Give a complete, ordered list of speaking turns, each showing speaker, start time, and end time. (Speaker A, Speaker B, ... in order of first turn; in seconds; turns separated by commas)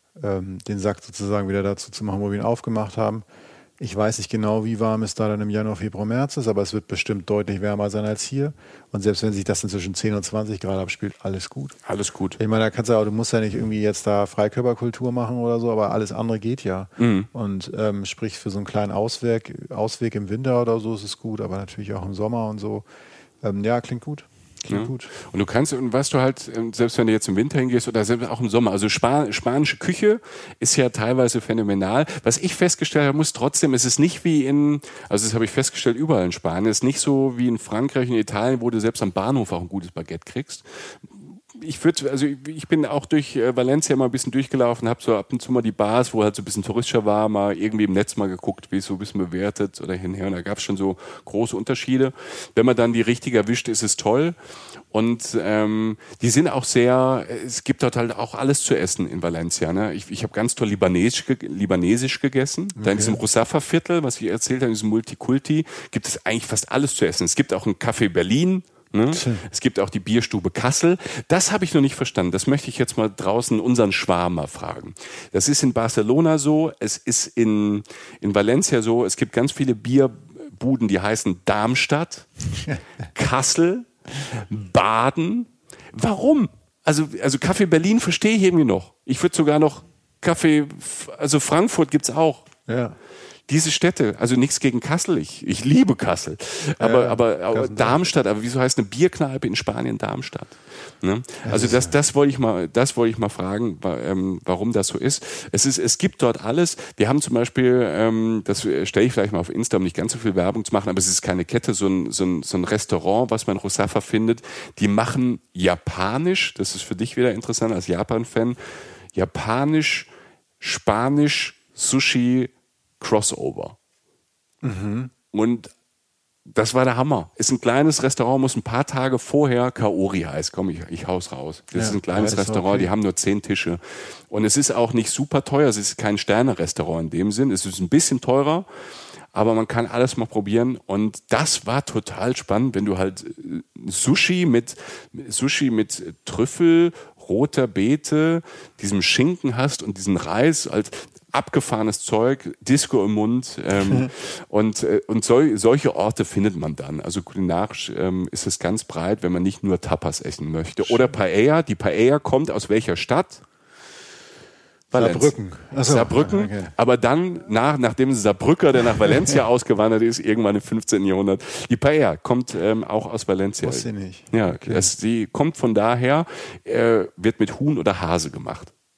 Speaker A: 0.2-3.2, Speaker A: 3.8-11.8, Speaker B: 11.8-12.4, Speaker A: 12.4-22.9, Speaker B: 17.0-17.3, Speaker A: 23.4-25.1, Speaker B: 24.7-40.6, Speaker B: 41.5-54.4, Speaker B: 54.9-82.3, Speaker A: 62.8-63.2, Speaker A: 69.1-69.4, Speaker B: 83.1-92.5, Speaker A: 92.7-93.0, Speaker B: 93.5-118.6, Speaker A: 96.8-98.0, Speaker A: 101.4-101.9, Speaker B: 119.1-120.1, Speaker B: 120.6-123.8, Speaker A: 124.6-125.1, Speaker B: 125.3-125.7, Speaker B: 126.5-138.7, Speaker A: 131.7-132.9, Speaker B: 139.3-163.4, Speaker A: 160.8-161.1, Speaker B: 164.9-178.7, Speaker A: 164.9-166.7, Speaker A: 173.6-174.9